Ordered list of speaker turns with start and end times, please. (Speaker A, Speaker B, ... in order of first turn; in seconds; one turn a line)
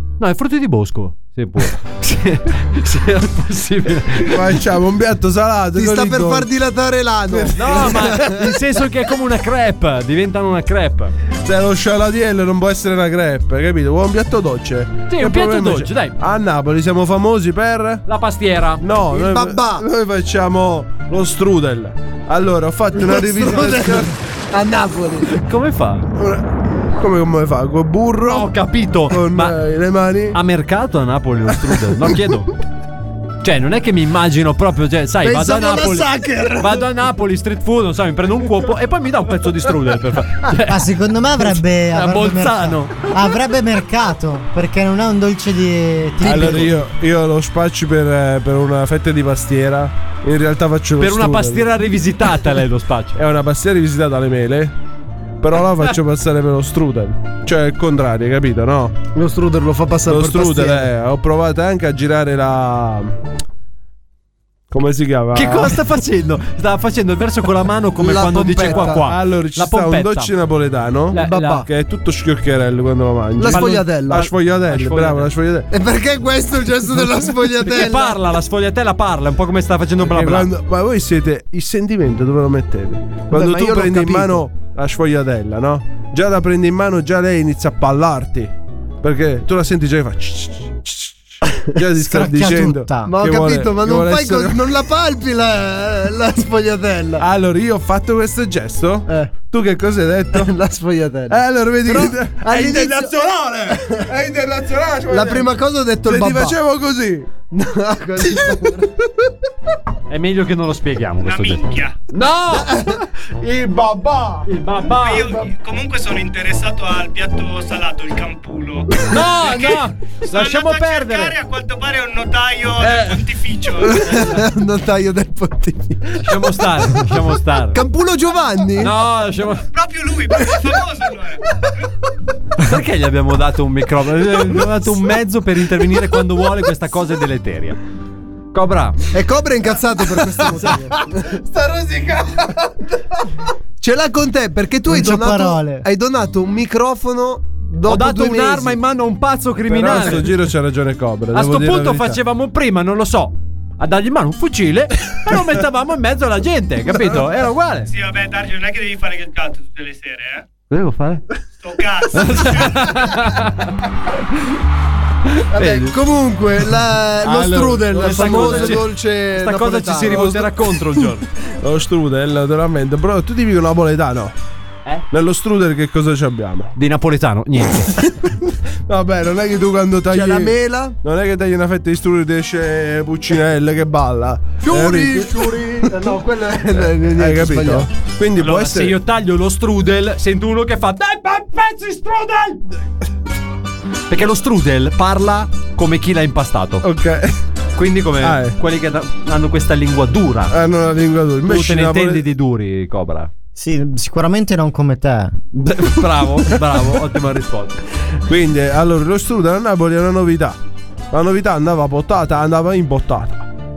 Speaker A: 0.2-4.4
Speaker B: 4.1-6.5
Speaker C: 5.8-8.4
Speaker B: 7.3-8.2
Speaker A: 7.5-11.1
Speaker B: 11.4-18.0
Speaker A: 15.1-16.2
Speaker A: 18.1-18.8
Speaker B: 18.8-24.2
Speaker C: 19.1-19.8
Speaker C: 23.0-25.4
Speaker A: 25.4-26.1
Speaker B: 26.1-28.5
Speaker A: 28.2-29.6
Speaker B: 29.1-30.4
Speaker A: 30.3-32.5
Speaker A: 33.4-40.9
Speaker C: 35.2-36.9
Speaker D: 40.6-46.7
Speaker A: 41.4-43.0
Speaker B: 46.2-51.7
Speaker A: 51.0-53.2
Speaker B: 53.2-54.7
Speaker B: 55.4-59.0
Speaker C: 59.1-60.9
Speaker B: 60.1-63.2
Speaker B: 64.7-65.8
Speaker A: 65.3-70.3
Speaker C: 68.0-69.1
Speaker B: 68.7-75.7
Speaker A: 71.1-71.7
Speaker C: 71.2-71.7
Speaker C: 73.4-74.2
Speaker A: 73.5-75.3
Speaker C: 75.7-78.2
Speaker A: 77.6-80.5
Speaker B: 80.0-94.7
Speaker C: 83.3-84.4
Speaker D: 92.0-93.1
Speaker C: 93.1-97.2
Speaker B: 97.2-100.5
Speaker C: 99.1-99.3
Speaker C: 100.3-103.1
Speaker B: 101.3-105.5
Speaker C: 103.7-104.0
Speaker C: 105.1-106.6
Speaker B: 106.1-107.3
Speaker C: 107.5-109.1
Speaker A: 110.1-112.9
Speaker E: 111.2-112.0
Speaker C: 112.7-112.9
Speaker B: 113.4-114.5
Speaker A: 114.5-115.5
Speaker E: 114.9-124.2
Speaker A: 119.0-121.4
Speaker A: 122.8-123.2
Speaker C: 123.9-127.1
Speaker A: 126.2-127.8
Speaker C: 127.7-128.9
Speaker A: 128.8-129.7
Speaker E: 129.7-131.5
Speaker A: 132.6-137.8
Speaker A: 138.5-139.0
Speaker C: 139.1-141.3
Speaker B: 140.4-142.5
Speaker C: 143.8-148.8
Speaker D: 144.9-145.8
Speaker A: 147.9-150.3
Speaker B: 149.7-152.2
Speaker A: 151.3-157.9
Speaker E: 157.9-160.5
Speaker A: 160.7-161.3
Speaker E: 161.6-163.3
Speaker A: 162.1-163.7
Speaker A: 165.4-166.0
Speaker C: 165.5-170.4
Speaker B: 167.2-168.8
Speaker A: 168.0-171.3
Speaker B: 170.1-170.5
Speaker B: 171.6-174.3
Speaker B: 175.1-176.7
Speaker A: 176.8-178.0
Speaker B: 178.0-185.9
Speaker C: 180.1-180.9
Speaker C: 184.6-187.9
Speaker B: 186.7-189.0
Speaker A: 188.4-192.6
Speaker A: 194.1-196.8
Speaker B: 196.8-197.4
Speaker A: 197.8-200.5
Speaker B: 198.2-198.6
Speaker B: 200.5-202.2
Speaker A: 201.5-203.3
Speaker D: 203.6-205.4
Speaker A: 205.5-207.8
Speaker B: 208.3-210.6
Speaker B: 211.1-213.5